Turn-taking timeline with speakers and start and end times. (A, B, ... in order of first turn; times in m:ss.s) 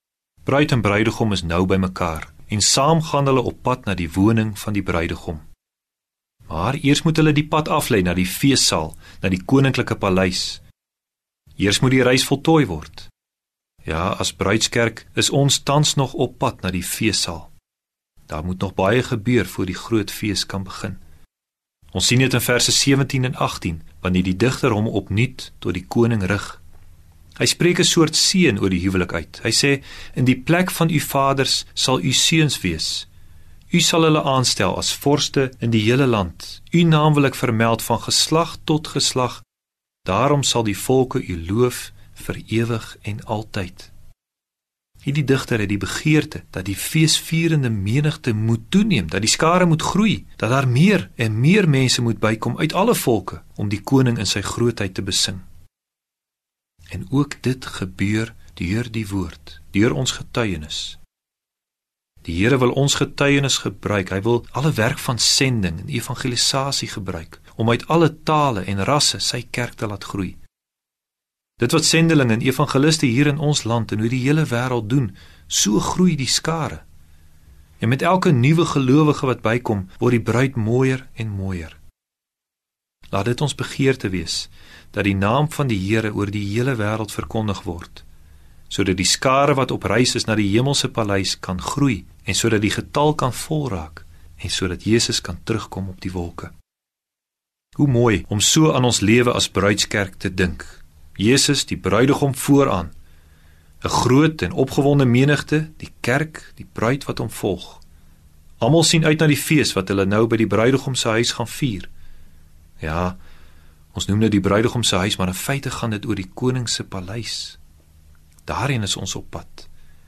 0:00.4-0:05.4 A
0:06.5-0:10.6 A
0:11.6-0:13.1 A
0:13.8-0:17.5 A
0:18.3-0:21.0 A
0:21.9-0:26.6 A
0:27.4-0:33.1 A
0:33.7-0:39.4 A
0:40.0-0:43.9 A
0:45.0-0:55.4 A
0:56.9-1:01.0 A
1:02.2-1:10.4 A
1:11.6-1:16.8 A
1:17.8-1:21.8 A
1:23.1-1:28.0 A
1:28.7-1:36.5 A
1:37.8-1:42.9 A
1:43.8-1:47.8 A
1:48.6-1:51.9 A
1:52.8-1:53.2 A
1:53.9-1:57.6 A
1:58.4-1:59.7 A